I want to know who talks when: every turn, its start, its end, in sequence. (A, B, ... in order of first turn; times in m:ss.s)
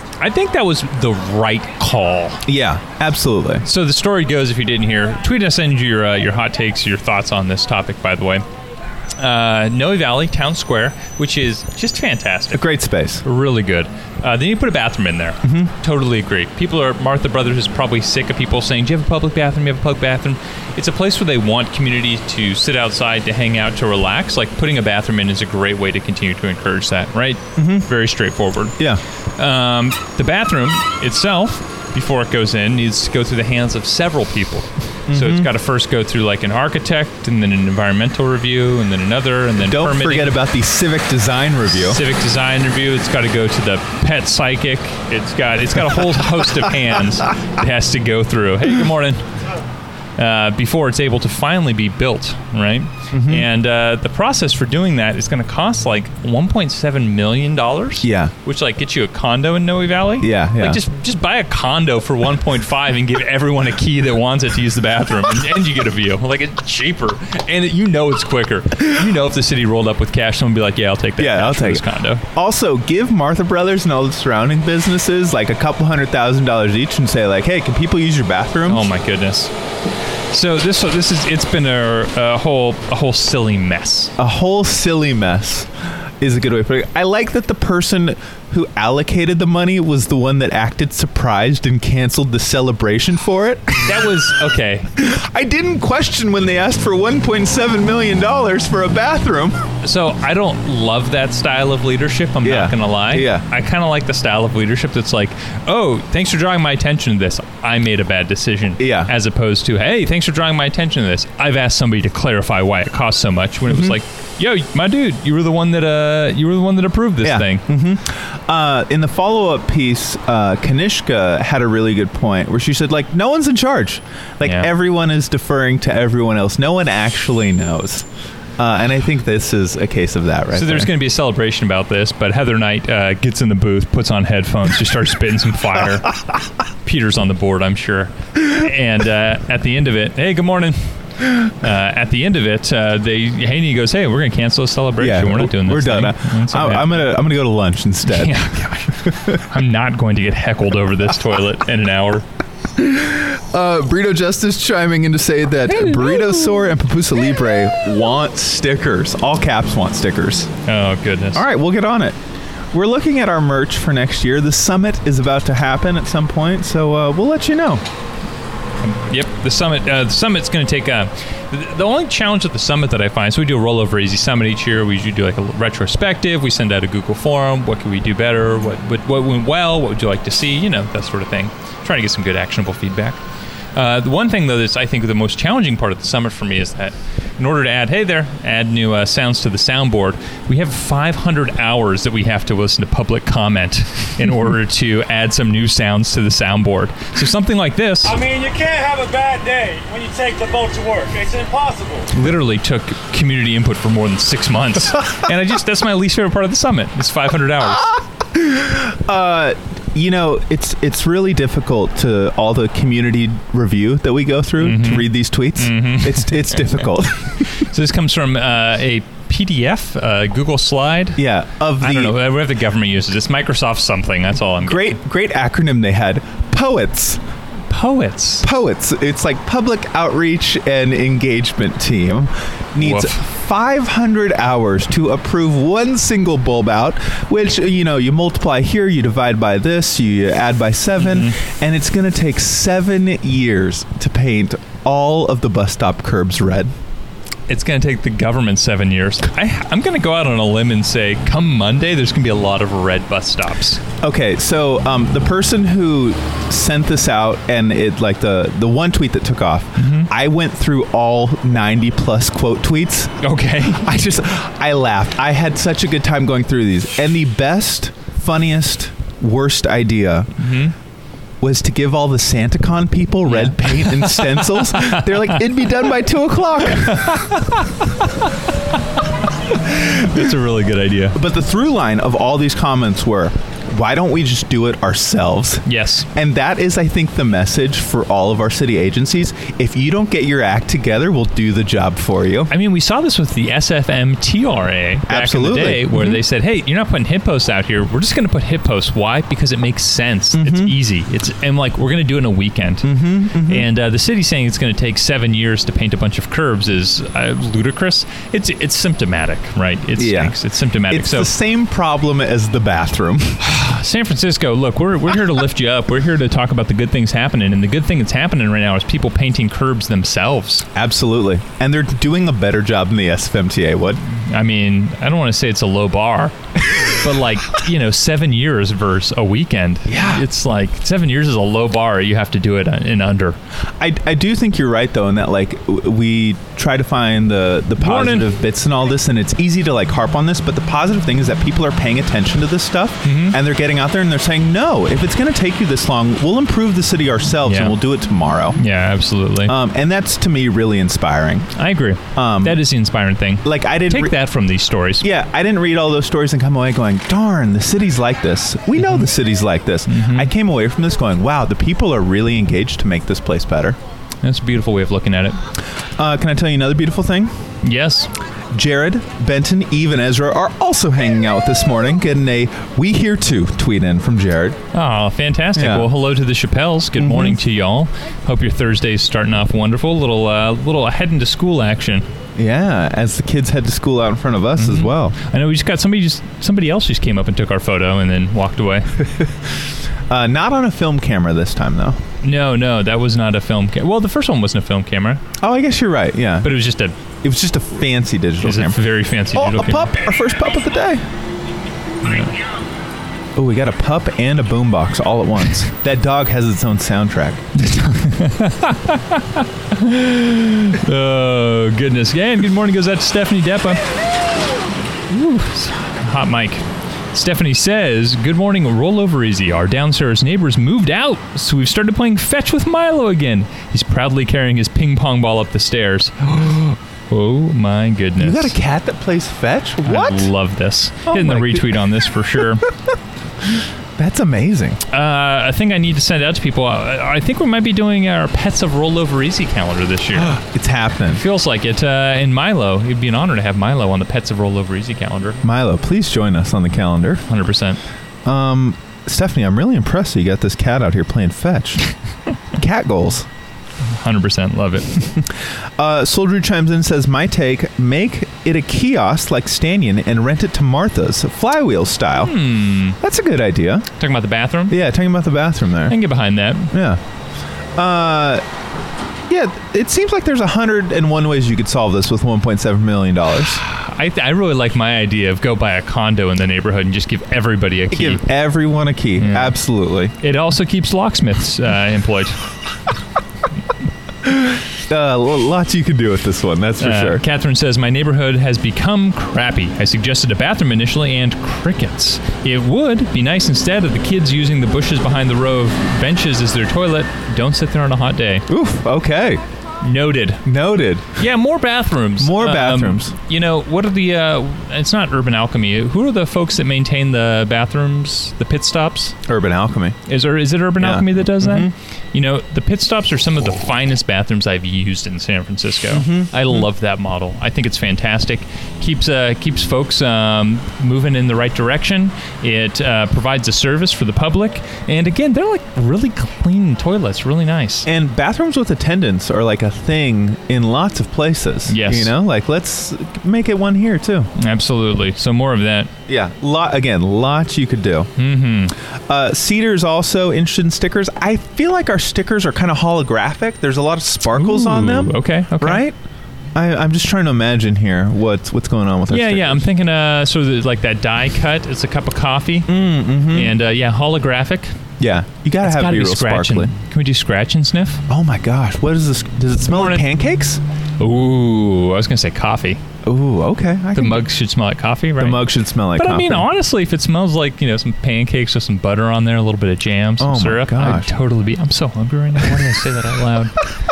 0:00.2-0:02.4 A
0:02.4-0:03.6 B
0:03.6-0:08.4 A
0:09.2-0:12.6 A
0:12.5-0:13.2 B
0:13.2-0:28.8 A
0:15.4-0:15.7 B
0:27.6-0:27.9 B
0:29.4-0:40.4 A
0:35.1-0:35.5 B
0:39.6-0:42.0 B
0:41.7-0:49.2 A
0:50.2-1:12.2 A
0:53.1-0:53.5 B
0:58.0-0:58.3 B
1:00.2-1:00.8 B
1:11.2-1:18.9 B
1:18.7-1:19.5 A
1:20.3-1:24.1 A
1:24.2-1:34.3 B
1:33.8-1:34.9 A
1:35.0-1:39.6 B
1:39.8-1:57.6 A
1:42.4-1:43.4 B
1:48.8-1:49.1 B
1:53.7-1:53.9 B
1:57.2-2:08.0 B
2:04.4-2:04.7 A
2:08.6-2:10.9 B
2:10.5-2:16.1 A
2:16.8-2:20.9 A
2:21.4-2:27.1 A
2:25.0-2:28.4 B
2:28.0-2:32.2 A
2:29.1-2:29.4 B
2:32.8-2:40.5 B
2:35.7-2:36.6 A
2:40.6-2:41.4 A
2:41.3-2:42.2 B
2:42.7-2:47.8 B
2:48.8-3:03.2 A
3:03.7-3:18.1 A
3:18.0-3:22.1 C
3:22.1-3:27.9 A
3:27.8-3:37.5 B
3:34.6-3:36.8 A
3:37.5-3:41.2 A
3:41.2-3:42.2 B
3:41.8-3:45.0 A
3:44.6-3:47.2 B
3:47.7-3:48.4 A
3:48.4-4:06.7 B
3:52.8-3:53.2 A
4:01.0-4:01.4 A
4:07.5-4:13.8 A
4:14.0-4:23.2 B
4:19.8-4:20.1 A
4:23.2-4:23.9 A
4:23.7-4:30.3 B
4:30.4-4:30.7 A
4:31.4-4:37.3 B
4:33.3-4:35.4 A
4:36.9-4:38.3 A
4:39.5-4:41.2 A
4:41.1-4:52.5 B
4:45.6-4:46.1 A
4:52.5-5:11.3 A
4:55.1-4:56.2 B
5:00.3-5:00.8 B
5:02.8-5:03.7 B
5:10.0-5:13.4 B
5:13.4-5:20.6 A
5:20.7-5:24.0 B
5:24.0-5:26.3 A
5:26.9-5:33.4 A
5:29.9-5:30.2 B
5:33.8-5:48.6 B
5:37.8-5:38.3 A
5:43.0-5:43.4 A
5:47.4-5:47.8 A
5:48.6-5:49.5 A
5:49.4-5:51.5 B
5:51.6-5:55.0 A
5:52.1-5:52.6 B
5:53.4-5:54.2 B
5:55.0-6:03.8 B
5:58.8-5:59.1 A
5:59.9-6:00.3 A
6:04.2-6:05.4 A
6:06.0-6:07.4 B
6:07.6-6:08.1 A
6:08.5-6:14.6 B
6:14.7-6:22.0 A
6:15.5-6:15.9 B
6:17.0-6:17.4 B
6:22.4-6:25.2 B
6:24.6-6:28.9 A
6:30.1-6:32.0 B
6:32.2-6:35.2 A
6:35.4-6:36.6 B
6:36.4-6:37.0 A
6:37.2-6:38.8 B
6:38.4-6:39.9 A
6:39.3-6:41.0 B
6:42.0-6:42.3 A
6:43.3-6:47.4 B
6:47.6-6:53.8 A
6:55.1-7:08.5 A
7:08.2-7:10.3 B
7:09.8-7:12.6 A
7:11.0-7:11.8 B
7:13.4-7:14.8 B
7:14.9-7:20.4 A
7:20.1-7:21.2 B
7:21.1-7:25.4 A
7:25.4-7:27.2 B
7:27.3-7:27.8 A
7:28.2-7:31.9 B
7:32.5-7:33.3 B
7:33.9-7:34.9 A
7:34.9-7:42.4 B
7:42.2-7:43.0 A
7:43.0-7:43.9 B
7:44.0-7:44.8 A
7:44.7-7:46.0 B
7:45.9-7:46.7 A
7:46.7-7:47.0 B
7:47.8-7:48.4 B
7:49.3-7:53.6 B
7:53.6-7:58.2 A
7:57.9-8:00.1 B
7:59.2-7:59.6 A
8:00.2-8:02.4 A
8:04.2-8:07.2 B
8:06.8-8:18.4 A
8:18.5-8:19.4 B
8:19.8-8:20.4 A
8:20.4-8:21.1 B
8:21.2-8:29.2 A
8:22.2-8:23.1 B
8:29.2-8:30.0 B
8:30.1-8:47.9 A
8:30.8-8:31.7 B
8:35.9-8:36.7 B
8:47.8-8:54.3 B
8:51.7-8:52.1 A
8:54.4-8:55.9 A
8:56.1-8:58.1 B
8:58.2-8:58.7 A
8:59.1-9:06.0 B
9:04.3-9:05.8 A
9:06.5-9:09.7 B
9:09.1-9:12.7 A
9:12.7-9:13.6 B
9:13.3-9:14.7 A
9:15.0-9:16.7 B
9:15.6-9:18.0 A
9:18.1-9:20.6 B
9:19.7-9:20.0 A
9:21.0-9:22.8 A
9:23.0-9:24.3 B
9:23.9-9:33.6 A
9:25.2-9:26.5 B
9:30.2-9:31.1 B